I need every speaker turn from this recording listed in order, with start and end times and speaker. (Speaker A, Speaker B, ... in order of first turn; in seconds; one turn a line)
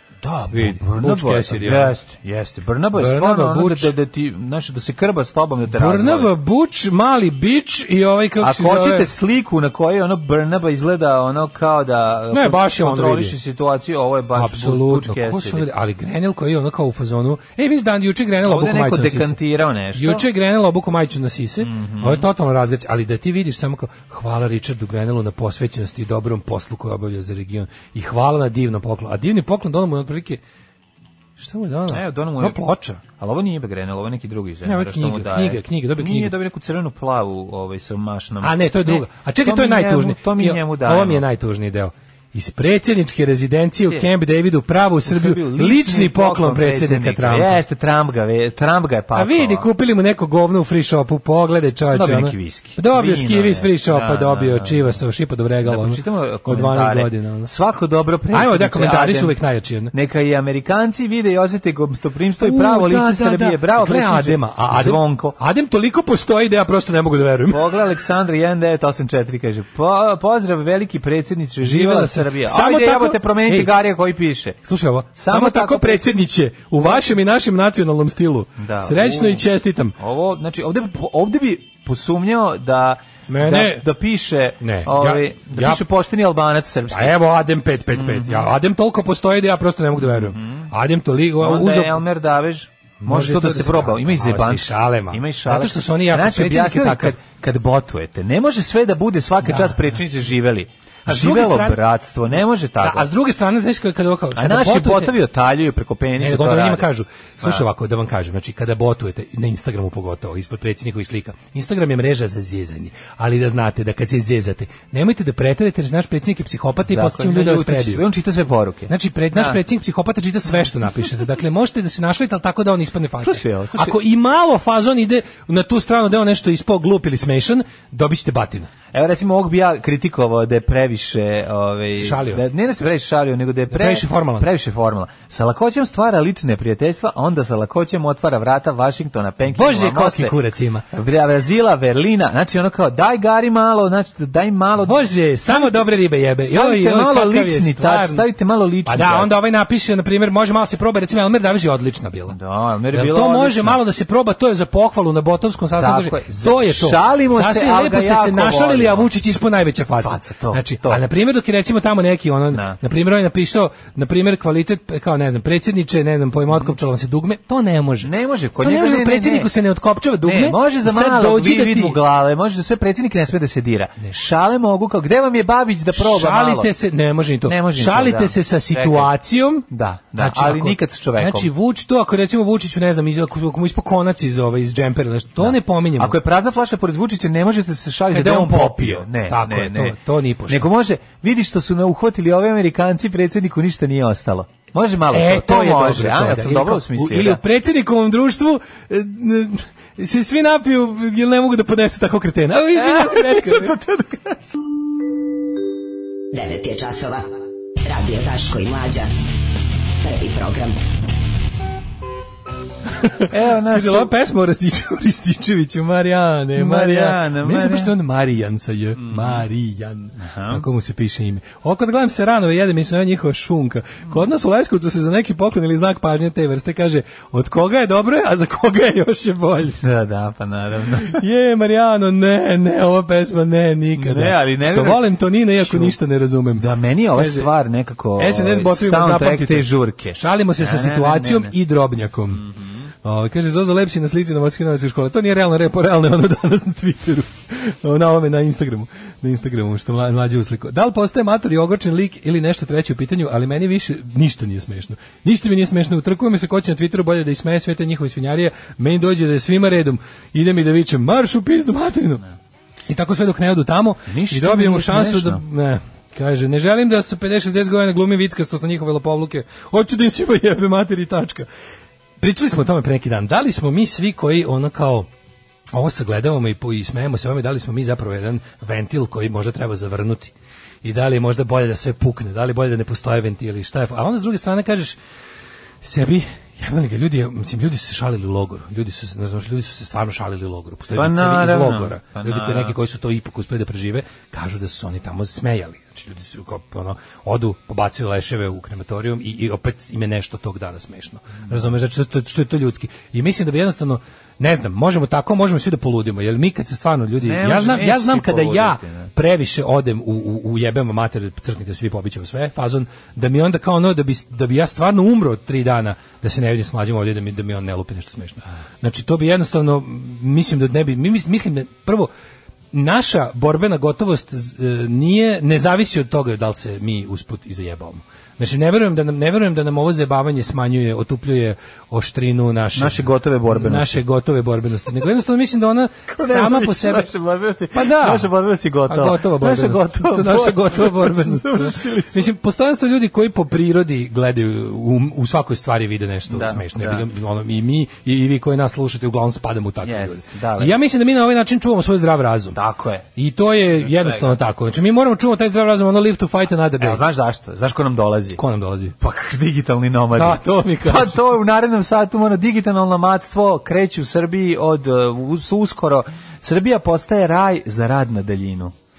Speaker A: 0.2-6.3
Speaker B: 0.5-1.9
Speaker B: 2.9-3.9
Speaker B: 5.7-9.1
Speaker A: 8.4-15.7
Speaker B: 12.3-13.3
Speaker B: 14.3-19.4
Speaker A: 18.4-20.2
Speaker B: 19.9-30.4
Speaker A: 21.6-22.3
Speaker B: 31.4-33.0
Speaker A: 31.9-41.2
Speaker B: 34.6-36.4
Speaker B: 38.4-47.6
Speaker A: 45.0-49.7
Speaker B: 49.1-57.5
Speaker A: 51.9-55.0
Speaker A: 55.6-59.4
Speaker B: 58.3-59.9
Speaker A: 59.9-65.4
Speaker B: 62.4-67.6
Speaker A: 67.5-74.6
Speaker B: 71.6-73.7
Speaker B: 74.6-79.9
Speaker A: 75.2-76.1
Speaker A: 76.8-77.0
Speaker A: 78.6-79.4
Speaker A: 80.0-87.2
Speaker B: 83.3-83.9
Speaker B: 84.6-85.8
Speaker B: 86.9-92.0
Speaker A: 87.9-88.5
Speaker A: 90.0-90.7
Speaker A: 91.4-103.1
Speaker B: 93.0-97.2
Speaker B: 99.4-99.8
Speaker B: 101.0-101.8
Speaker B: 102.8-105.1
Speaker A: 104.3-106.9
Speaker B: 106.2-118.0
Speaker A: 116.9-119.6
Speaker B: 118.9-128.7
Speaker A: 123.2-124.0
Speaker A: 128.9-140.3
Speaker B: 131.9-132.4
Speaker B: 133.7-134.5
Speaker B: 139.5-140.8
Speaker A: 140.9-145.8
Speaker B: 144.8-148.3
Speaker A: 146.4-149.3
Speaker B: 148.8-152.3
Speaker A: 152.3-153.8
Speaker B: 152.9-172.0
Speaker A: 155.8-159.1
Speaker A: 160.0-161.0
Speaker A: 162.5-162.8
Speaker A: 168.0-169.5
Speaker A: 170.2-176.7
Speaker B: 175.9-186.2
Speaker A: 177.4-179.1
Speaker A: 179.7-181.5
Speaker A: 185.4-197.4
Speaker B: 188.1-190.7
Speaker B: 195.1-203.7
Speaker A: 202.7-204.4
Speaker C: 206.3-207.3
Speaker C: 207.8-209.1
Speaker C: 210.0-210.8
Speaker B: 213.0-229.8
Speaker A: 213.3-214.1
Speaker A: 216.6-217.9
Speaker A: 218.9-219.4
Speaker A: 220.2-220.6
Speaker A: 229.8-231.2
Speaker B: 231.0-237.5
Speaker A: 234.0-235.9
Speaker A: 236.6-241.5
Speaker B: 238.2-242.4
Speaker A: 242.4-242.8
Speaker B: 243.0-262.2
Speaker B: 262.9-271.5
Speaker A: 264.1-265.4
Speaker B: 272.2-275.1
Speaker B: 275.7-280.3
Speaker B: 280.8-285.0
Speaker B: 285.8-322.1
Speaker A: 290.9-292.8
Speaker A: 307.2-309.1
Speaker B: 322.7-337.1
Speaker A: 332.8-334.0
Speaker A: 336.1-342.3
Speaker B: 337.7-338.3
Speaker B: 338.9-352.6
Speaker A: 346.3-347.0
Speaker A: 349.8-350.8
Speaker A: 352.5-353.1
Speaker B: 353.1-357.0
Speaker A: 353.8-354.4
Speaker A: 356.8-358.4
Speaker B: 358.4-358.9
Speaker A: 359.0-368.7
Speaker B: 360.1-361.2